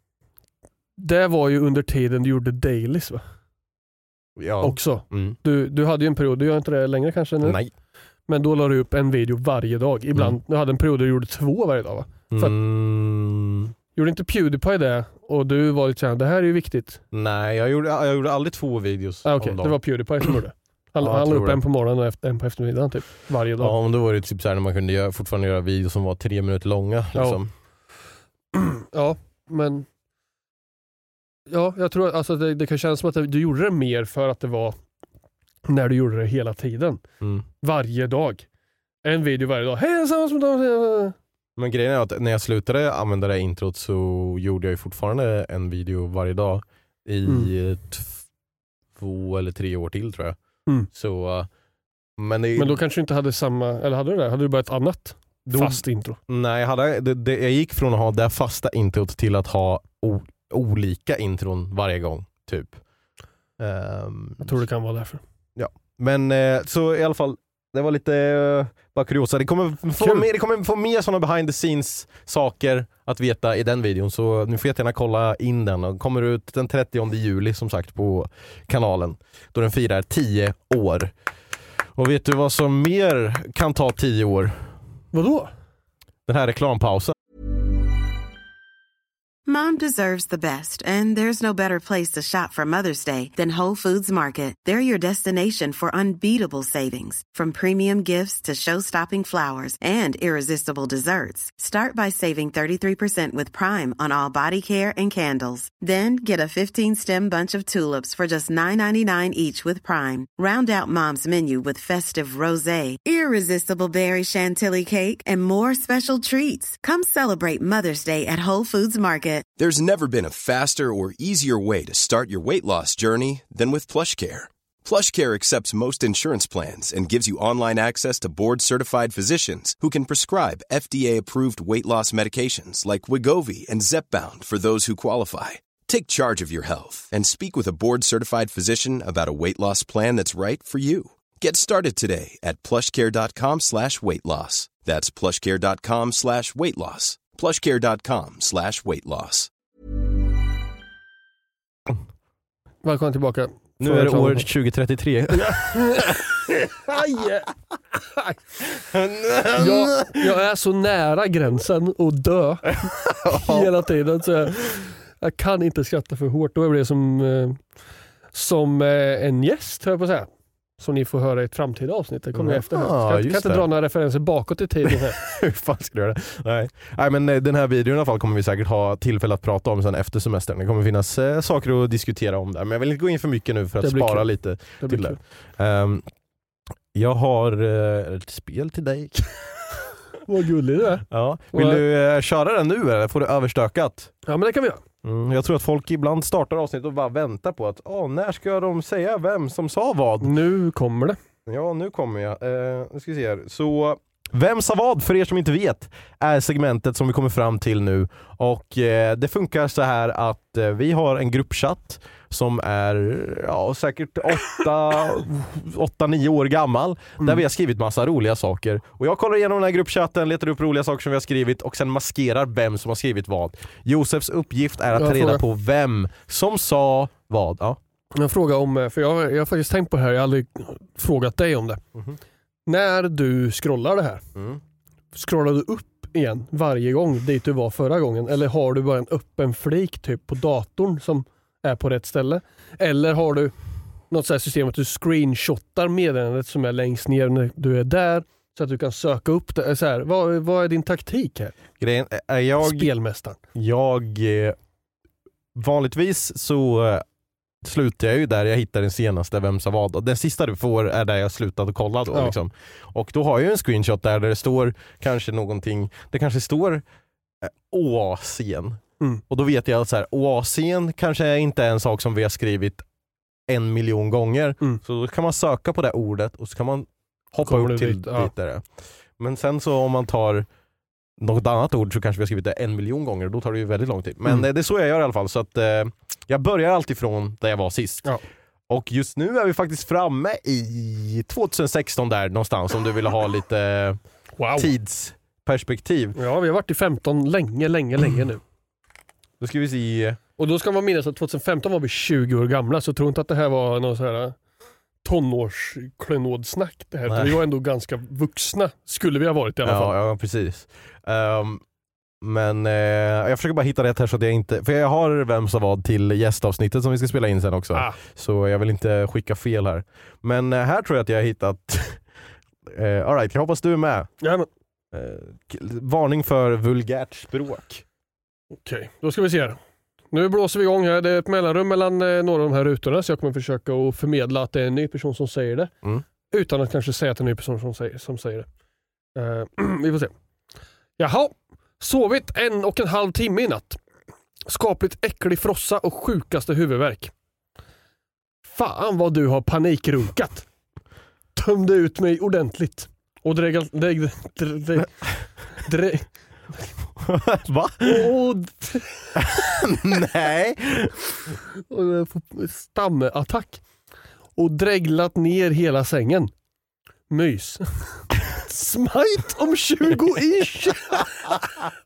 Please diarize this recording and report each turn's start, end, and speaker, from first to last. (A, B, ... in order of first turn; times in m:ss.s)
0:01.0-0:03.2 A
0:04.4-0:05.4 B
0:04.6-0:07.6 A
0:07.4-0:07.7 B
0:08.3-0:12.5 A
0:12.3-0:13.7 B
0:13.9-0:17.0 A
0:17.1-0:19.8 B
0:19.2-0:23.7 A
0:21.0-0:21.6 B
0:23.6-0:27.5 B
0:27.1-0:27.4 A
0:28.5-0:29.9 A
0:31.5-0:34.8 A
0:35.7-0:37.0 A
0:37.2-0:37.4 B
0:37.6-0:38.4 A
0:39.0-0:41.2 A
0:41.6-0:48.2 B
0:47.2-0:47.5 A
0:49.0-0:51.5 B
0:52.2-0:52.8 B
0:52.6-0:56.2 A
0:55.4-1:02.8 B
1:03.6-1:04.6 B
1:04.4-1:05.2 A
1:05.6-1:21.1 B
1:10.0-1:10.2 A
1:21.9-1:24.7 B
1:25.1-1:25.5 A
1:26.2-1:27.1 B
1:29.5-1:59.4 C
1:59.6-2:29.5 D
2:32.8-2:34.5 A
2:33.8-2:36.2 B
2:35.3-2:38.4 A
2:38.9-2:40.3 B
2:39.5-2:47.6 A
2:43.0-2:43.7 B
2:48.3-2:55.2 A
2:52.3-2:53.6 B
2:54.9-3:06.0 B
3:03.8-3:05.2 A
3:06.9-3:09.8 B
3:10.2-3:11.8 A
3:11.1-3:14.1 B
3:14.2-3:14.8 A
3:15.0-3:20.3 B
3:20.2-3:21.2 A
3:21.4-3:47.8 B
3:37.2-3:37.4 A
3:44.9-3:45.4 A
3:48.1-3:51.8 A
3:52.7-3:54.2 A
3:54.3-3:54.6 B
3:55.1-4:03.5 A
4:04.1-4:11.6 A
4:11.8-4:12.9 B
4:12.6-4:13.4 A
4:13.6-4:14.6 B
4:15.6-4:17.0 B
4:17.6-4:26.8 B
4:27.4-4:32.8 B
4:33.5-4:40.5 B
4:37.4-4:38.3 A
4:41.2-4:48.1 B
4:48.7-4:54.0 B
4:54.4-4:54.7 A
4:54.6-4:56.2 B
4:56.2-4:58.4 A
4:59.4-5:00.2 B
5:00.4-5:04.4 A
5:05.0-5:09.9 A
5:07.1-5:07.4 B
5:09.6-5:11.6 B
5:12.2-5:22.0 B
5:22.6-5:24.1 B
5:24.2-5:24.5 A
5:24.9-5:27.8 B
5:28.6-5:29.6 A
5:30.1-5:35.7 A
5:36.3-5:38.5 A
5:39.1-5:40.1 A
5:41.0-5:43.8 A
5:44.4-5:47.1 A
5:48.4-5:50.5 A
5:51.3-5:56.7 A
5:57.0-5:58.1 B
5:57.8-5:59.2 A
5:59.2-6:01.0 B
6:01.7-6:03.6 A
6:04.4-6:06.3 A
6:07.1-6:11.3 A